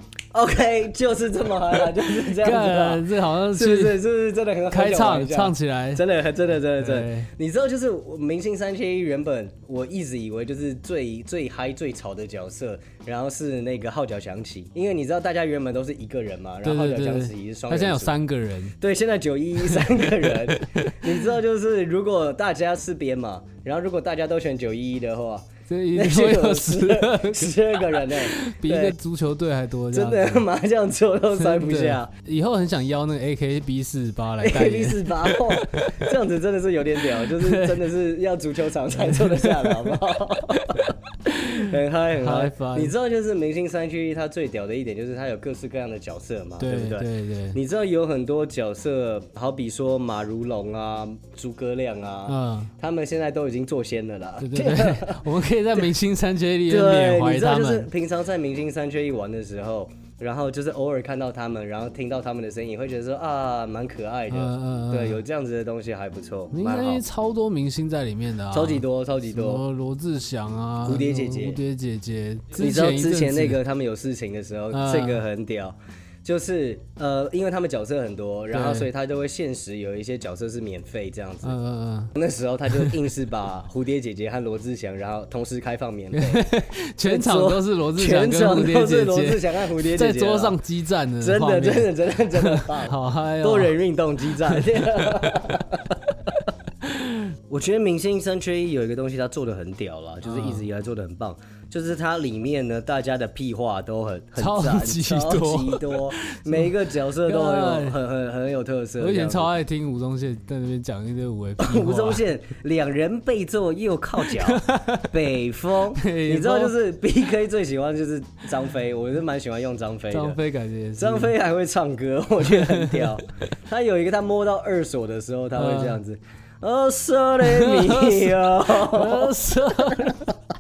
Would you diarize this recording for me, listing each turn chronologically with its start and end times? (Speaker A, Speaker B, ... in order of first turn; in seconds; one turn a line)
Speaker A: 0.3-18.1
Speaker B: 2.2-4.0
Speaker B: 4.7-6.0
Speaker B: 6.8-7.3
Speaker B: 16.6-18.8
Speaker A: 18.8-28.9
Speaker B: 19.7-21.2
Speaker B: 25.7-30.5
Speaker A: 29.9-32.1
Speaker B: 31.4-36.0
Speaker A: 34.4-55.3
Speaker B: 37.1-37.9
Speaker B: 39.0-40.0
Speaker B: 40.6-42.9
Speaker B: 46.6-47.6
Speaker B: 52.3-52.7
Speaker B: 54.4-57.9
Speaker A: 56.7-67.0
Speaker B: 64.3-65.2
Speaker B: 66.5-73.6
Speaker A: 68.5-69.6
Speaker A: 70.8-71.6
Speaker A: 72.6-81.5
Speaker B: 74.7-75.2
Speaker B: 78.5-78.9
Speaker B: 81.4-82.1
Speaker A: 82.2-86.5
Speaker B: 82.7-83.0
Speaker B: 86.1-93.8
Speaker A: 87.0-90.6
Speaker A: 91.2-96.0
Speaker B: 94.3-95.5
Speaker B: 96.8-97.3
Speaker A: 97.5-109.5
Speaker B: 100.2-100.7
Speaker B: 104.4-108.0
Speaker B: 109.0-112.2
Speaker A: 111.6-120.4
Speaker B: 114.2-115.1
Speaker B: 116.0-116.8
Speaker B: 120.1-121.3
Speaker A: 121.0-130.3
Speaker B: 122.4-123.2
Speaker B: 125.6-126.0
Speaker B: 127.4-130.4